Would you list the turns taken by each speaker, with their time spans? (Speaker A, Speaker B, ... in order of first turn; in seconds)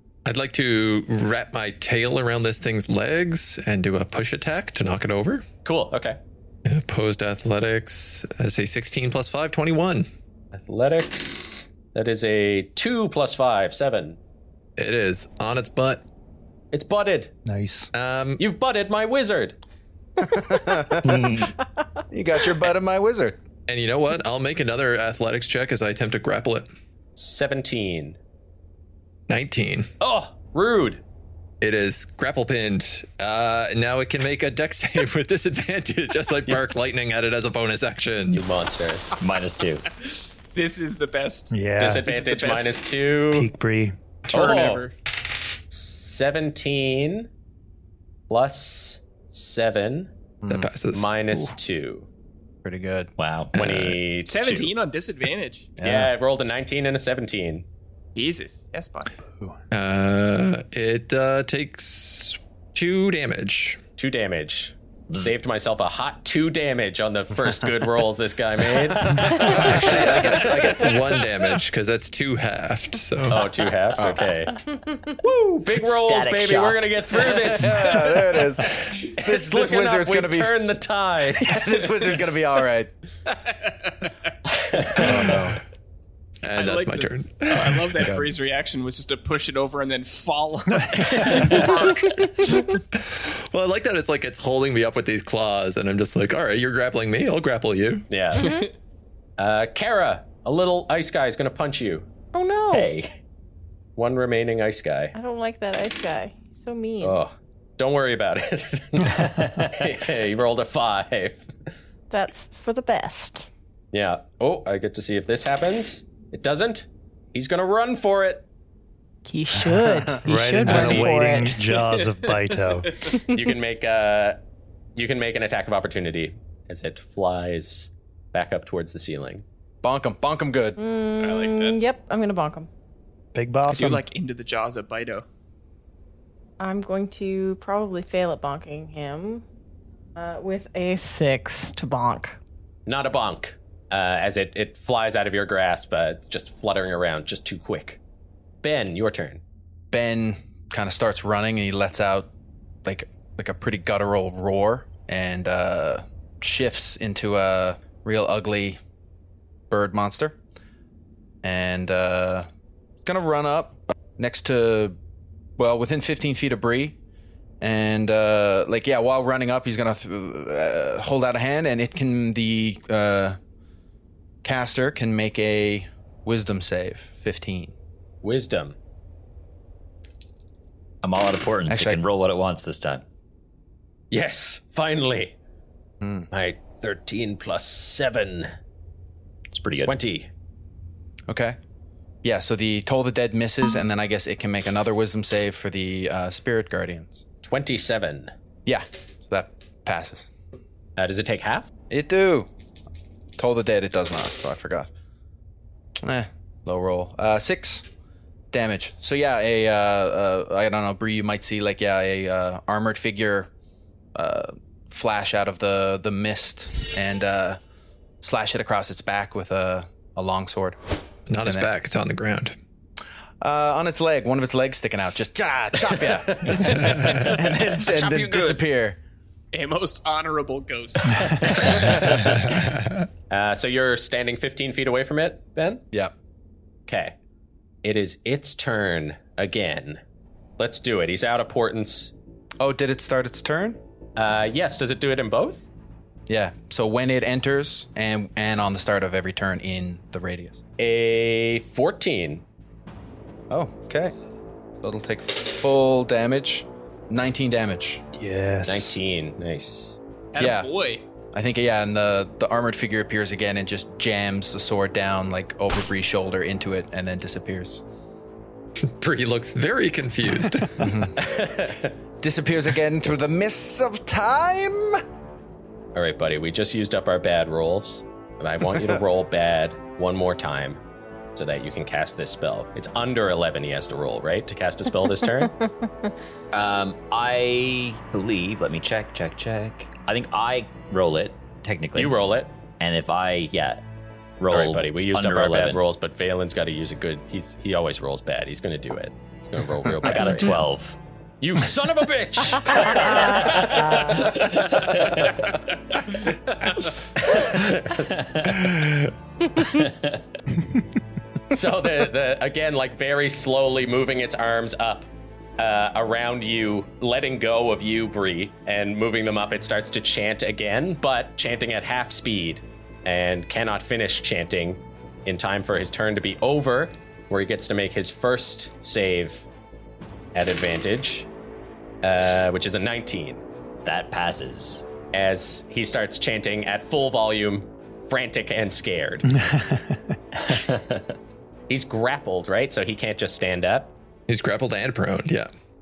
Speaker A: 0.2-5.4, 6.7-10.1, 14.8-16.0, 17.9-18.4, 23.7-26.6, 29.3-29.9, 31.6-38.4, 50.5-51.1, 53.6-53.9, 59.7-63.8, 69.3-73.4, 86.4-88.1, 92.9-98.1, 221.3-222.6, 268.8-270.9, 344.3-345.5
Speaker B: 5.6-6.2, 10.5-14.2, 16.7-17.3, 18.4-19.6, 27.2-28.2, 30.0-31.0, 38.3-39.1, 41.8-43.5, 44.3-44.9, 45.7-47.3, 48.3-50.1, 50.9-52.1, 53.5-54.7, 55.8-57.6, 64.0-70.5, 73.3-74.5, 75.2-78.1, 79.1-82.0, 84.7-85.0, 98.1-98.5, 99.4-102.1, 104.0-105.1, 107.0-111.4, 113.9-118.4, 120.6-121.1, 123.3-124.4, 125.0-129.4, 142.9-148.0, 148.6-149.4, 178.2-178.8, 184.1-185.3, 186.3-188.5, 189.8-190.3, 197.4-198.3, 201.0-201.7, 233.3-235.8, 236.9-237.1, 237.8-240.0, 240.6-242.1, 244.2-245.6, 250.8-252.4, 258.6-260.0, 271.2-271.9, 275.9-280.8, 281.4-285.5, 291.9-292.5, 294.5-300.6, 301.4-304.8, 307.2-308.1, 311.5-329.5, 330.3-331.3, 332.0-333.4, 335.1-339.3, 341.7-343.9
Speaker C: 17.4-17.9, 41.5-42.1, 43.3-44.0, 120.2-123.0, 133.3-134.0, 258.1-258.9, 339.3-340.2
Speaker D: 20.2-21.5, 22.1-23.4, 50.4-50.7, 52.6-53.1, 55.8-56.1, 69.0-69.5, 77.5-80.5, 81.4-82.9, 84.9-85.6, 88.0-88.3, 129.8-130.8, 149.9-152.3, 152.8-158.8, 159.7-160.4, 161.4-162.5, 163.0-164.9, 165.6-167.0, 167.6-173.4, 174.4-177.7, 181.7-182.0, 186.0-186.3, 191.3-191.6, 192.2-197.2, 198.7-200.3, 201.9-202.5, 203.4-204.9, 206.0-207.8, 208.5-213.5, 214.1-217.6, 218.2-220.8, 221.4-221.7, 223.4-229.0, 242.6-243.8, 246.3-250.6, 253.5-254.1, 254.8-258.0, 260.4-260.7, 261.3-267.8, 270.8-271.1, 272.2-275.0
Speaker E: 21.0-21.5, 39.2-39.8, 53.2-53.6, 68.9-69.3, 75.8-77.5, 102.7-103.1, 109.0-109.9, 181.0-183.0, 189.5-190.0, 286.5-292.1, 292.8-293.8, 294.4-295.8, 300.0-301.0, 302.7-305.6, 308.0-308.7, 309.6-310.2, 333.8-334.9, 340.4-341.1
Speaker F: 40.1-41.5, 42.0-42.8, 44.2-44.9, 54.3-55.7, 58.1-59.1, 86.5-92.5, 121.7-123.0, 131.2-131.8, 133.7-135.2, 226.9-227.1, 227.8-228.6, 229.5-232.2, 260.3-261.0
Speaker G: 98.3-98.7, 102.3-102.9, 105.1-107.2, 112.1-113.5, 119.2-121.6, 130.8-132.7, 136.6-139.4, 140.1-142.4, 303.0-304.3